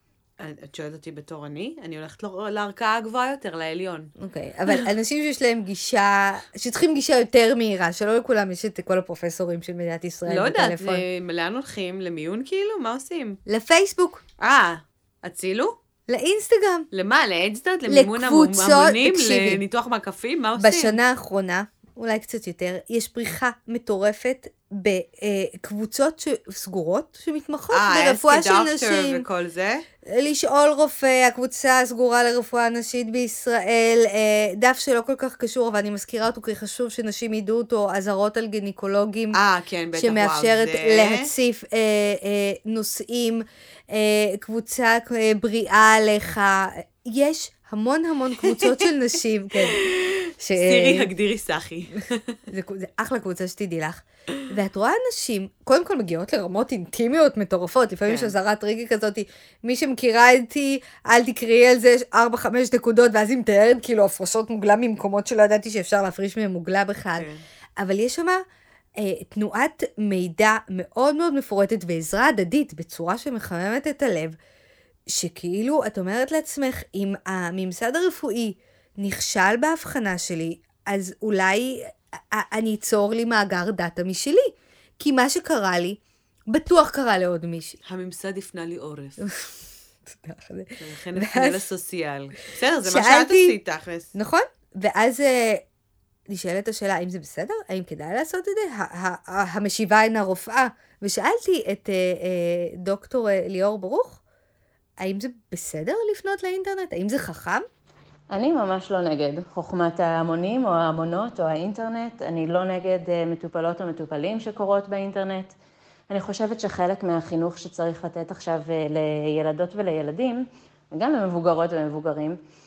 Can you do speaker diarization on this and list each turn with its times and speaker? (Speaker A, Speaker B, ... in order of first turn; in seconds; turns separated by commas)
Speaker A: 0.4-4.1, Speaker B: 4.2-11.0, Speaker A: 10.3-13.4, Speaker B: 13.5-14.2, Speaker A: 14.4-15.8, Speaker B: 16.1-16.9, Speaker A: 16.9-21.0, Speaker B: 17.9-19.6, Speaker B: 20.6-29.2, Speaker A: 27.7-29.8, Speaker B: 30.1-39.4, Speaker A: 39.3-41.2, Speaker B: 40.0-49.8, Speaker A: 48.5-48.9, Speaker A: 49.7-52.4, Speaker B: 50.4-51.1, Speaker B: 52.5-67.3, Speaker A: 58.1-58.3, Speaker A: 67.2-67.4, Speaker B: 67.8-68.4, Speaker B: 69.0-74.4, Speaker B: 75.1-86.0, Speaker B: 86.5-87.8, Speaker A: 87.9-89.2, Speaker B: 89.2-89.5, Speaker B: 90.1-91.7, Speaker A: 90.8-94.1, Speaker B: 92.9-93.6, Speaker B: 94.2-95.6, Speaker B: 96.3-104.2, Speaker B: 105.0-107.7, Speaker C: 108.3-115.5, Speaker C: 116.1-122.4